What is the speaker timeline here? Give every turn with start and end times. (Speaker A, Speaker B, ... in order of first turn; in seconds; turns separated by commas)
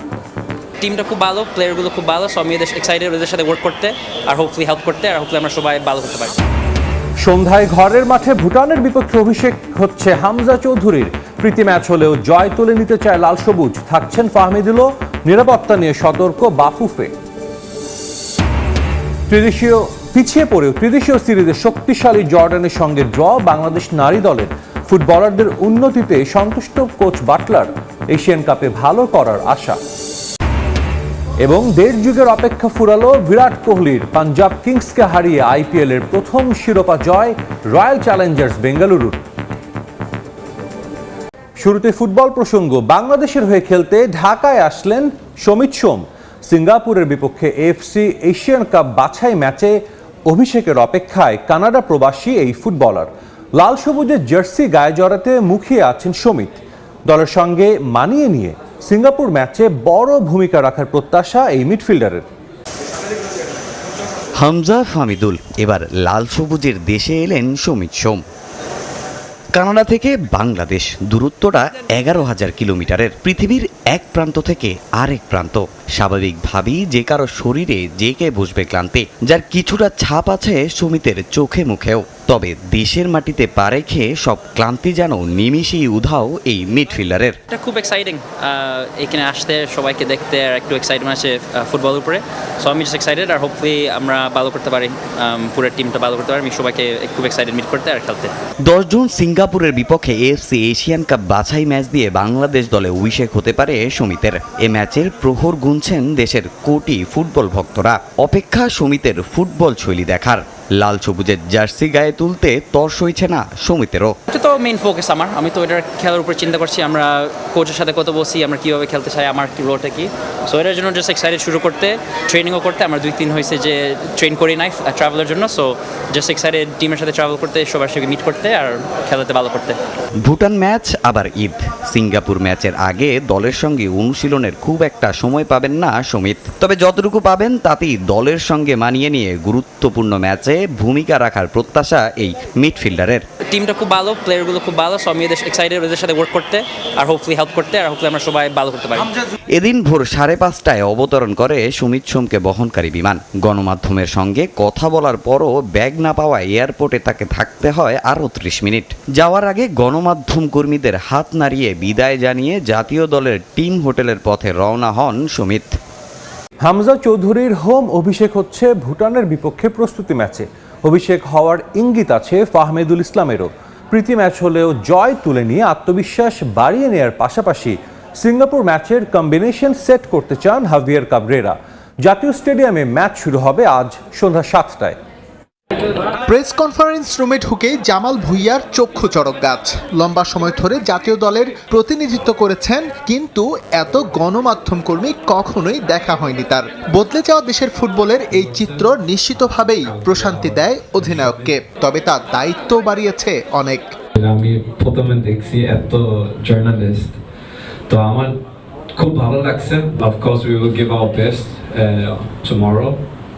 Speaker A: 0.8-6.3, Speaker B: 7.2-17.1, Speaker B: 19.3-29.8, Speaker B: 31.4-39.2, Speaker B: 41.6-49.8, Speaker B: 50.3-62.3, Speaker C: 64.4-68.2, Speaker C: 69.5-87.4, Speaker A: 87.5-98.3, Speaker C: 98.6-114.2, Speaker A: 114.3-129.8, Speaker C: 130.2-143.2, Speaker A: 143.5-149.1, Speaker C: 149.5-165.8, Speaker B: 166.6-185.0, Speaker D: 186.3-203.9, Speaker E: 199.9-201.4, Speaker E: 204.2-207.2, Speaker E: 207.9-208.4, Speaker E: 209.0-213.0